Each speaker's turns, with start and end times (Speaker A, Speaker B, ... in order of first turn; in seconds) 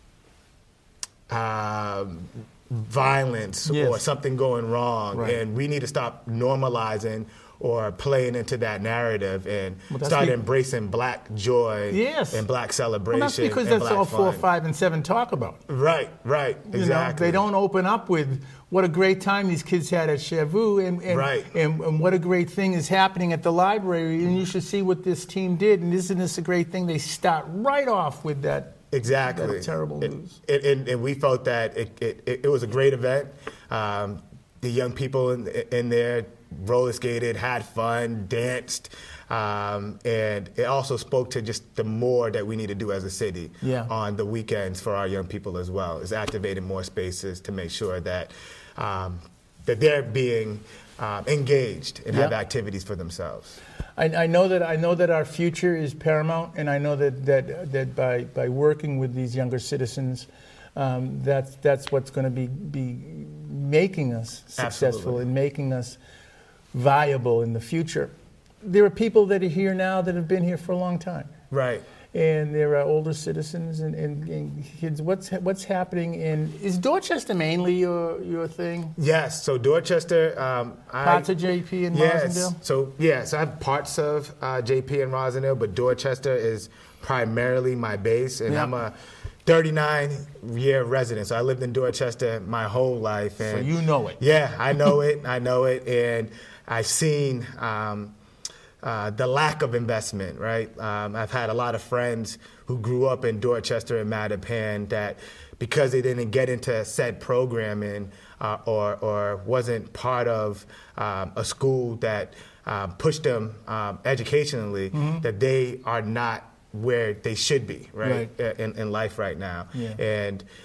Speaker A: 1.3-14.5, 15.7-17.4, 21.1-21.5, 28.9-53.6, 64.6-65.2, 71.5-71.8, 79.0-81.3, 81.9-88.9, 89.5-98.1, 98.8-120.5
Speaker B: 3.7-4.0, 5.1-5.4, 9.9-10.4, 11.9-12.4, 13.1-15.6, 16.7-30.4, 43.6-43.9, 54.0-66.0, 66.7-71.3, 72.1-79.0, 81.0-82.6, 88.5-88.8, 93.4-94.2, 114.9-115.2, 118.0-118.3, 119.7-120.0